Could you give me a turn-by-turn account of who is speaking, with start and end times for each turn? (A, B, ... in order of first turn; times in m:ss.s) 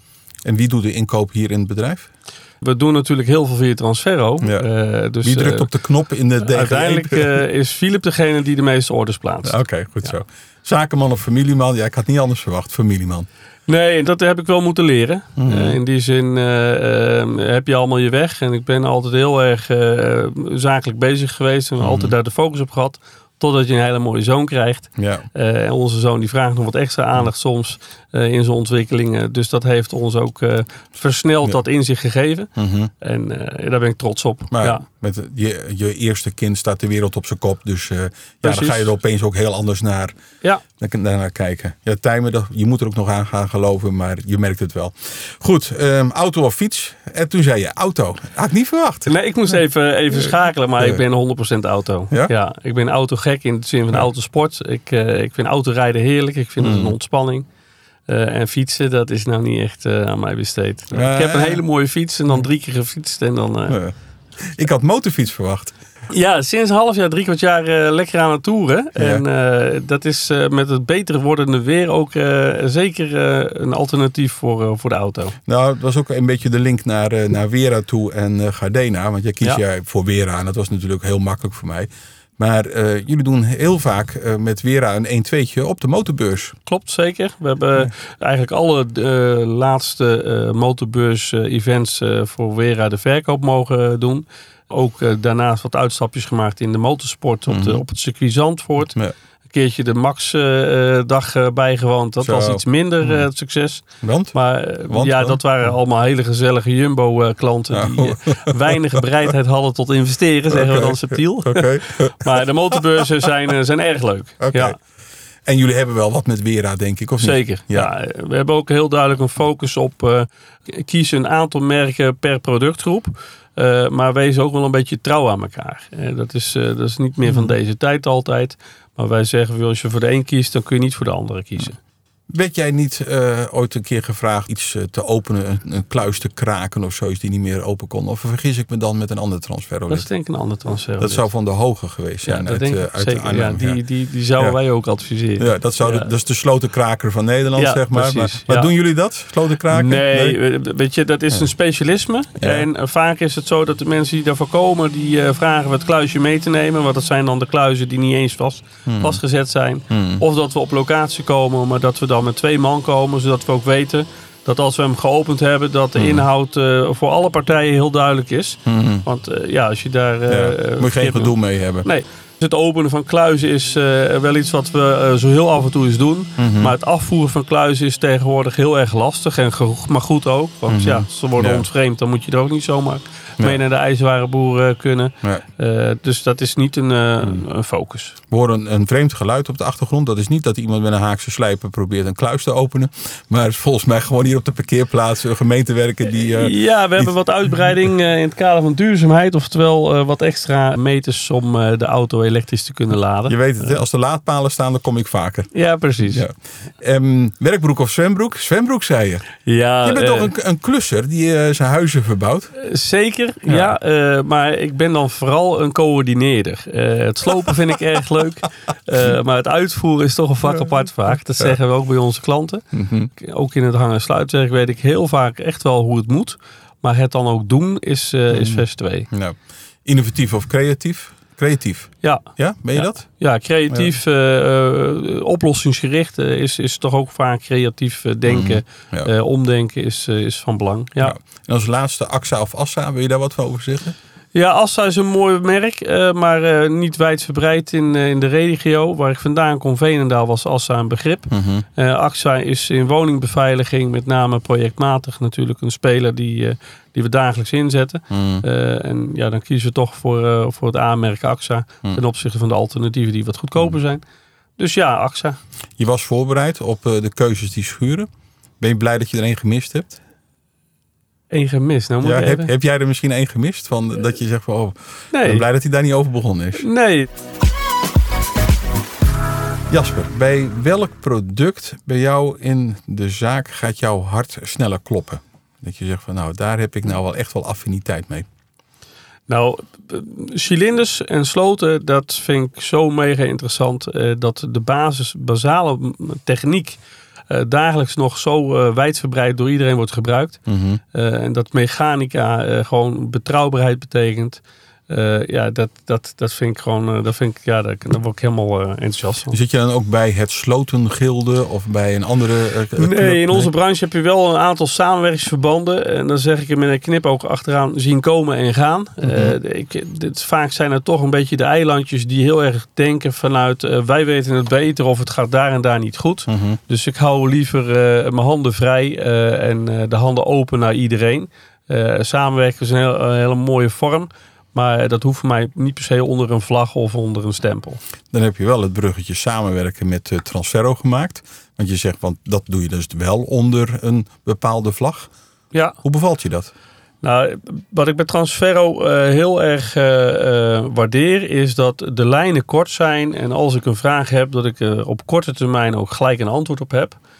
0:00.4-0:02.1 A
0:02.6-0:05.7 B
0:04.4-0:04.7 A
0:05.2-0:07.3 A
0:06.4-0:09.6 B
0:09.4-0:13.3 A
0:13.7-0:34.8 B
0:15.4-0:15.8 A
0:21.8-0:22.1 A
0:25.0-0:25.2 A
0:32.6-0:32.9 A
0:34.5-0:40.1 A
0:38.4-0:38.9 B
0:40.8-0:49.1 A
0:49.0-0:57.5 B
0:56.6-0:56.9 A
0:58.1-1:03.8 B
1:00.9-1:01.6 A
1:03.7-1:05.7 A
1:06.1-1:15.4 B
1:09.0-1:09.2 A
1:15.5-1:26.6 A
1:26.6-1:39.0 B
1:37.5-1:37.8 A
1:39.5-1:54.8 B
1:42.2-1:43.2 A
1:44.0-1:45.4 A
1:47.7-1:49.0 A
1:50.5-1:52.8 A
1:54.4-1:54.8 A
1:55.4-1:57.9 A
1:57.2-2:11.8 B
2:12.3-2:20.1 A
2:19.9-2:21.3 B
2:21.0-2:23.8 A
2:22.2-2:26.1 B
2:25.4-2:30.4 A
2:27.6-2:28.7 B
2:29.7-3:08.2 B
2:32.4-2:32.7 A
2:38.9-2:39.2 A
2:39.9-2:40.2 A
2:46.0-2:46.2 A
2:48.6-2:49.0 A
2:50.3-2:51.8 A
2:56.4-2:56.7 A
3:00.7-3:01.6 A
3:08.3-3:17.7 A
3:16.1-3:23.7 B
3:23.3-3:25.5 A
3:25.5-3:26.2 B
3:26.0-3:29.3 A
3:29.4-3:30.3 B
3:29.8-3:32.5 A
3:32.5-3:42.6 B
3:42.7-3:43.1 A
3:43.2-3:49.1 B
3:48.3-3:53.2 A
3:52.0-4:01.1 B
3:58.3-3:59.1 A
4:01.0-4:03.9 A
4:04.3-4:24.0 B
4:11.3-4:11.6 A
4:18.1-4:18.4 A
4:24.6-4:25.4 B
4:25.8-4:28.1 A
4:28.6-4:30.0 A
4:31.3-4:32.5 B
4:32.0-4:36.7 A
4:35.1-4:35.4 B
4:36.6-4:37.1 B
4:39.7-4:48.3 A
4:49.3-4:56.8 B
4:57.3-5:09.4 B
5:00.5-5:00.8 A
5:09.3-5:13.5 A
5:12.8-5:37.8 B
5:19.0-5:19.4 A
5:26.3-5:26.6 A
5:38.1-5:45.1 A
5:45.8-5:46.5 A
5:47.0-5:57.0 B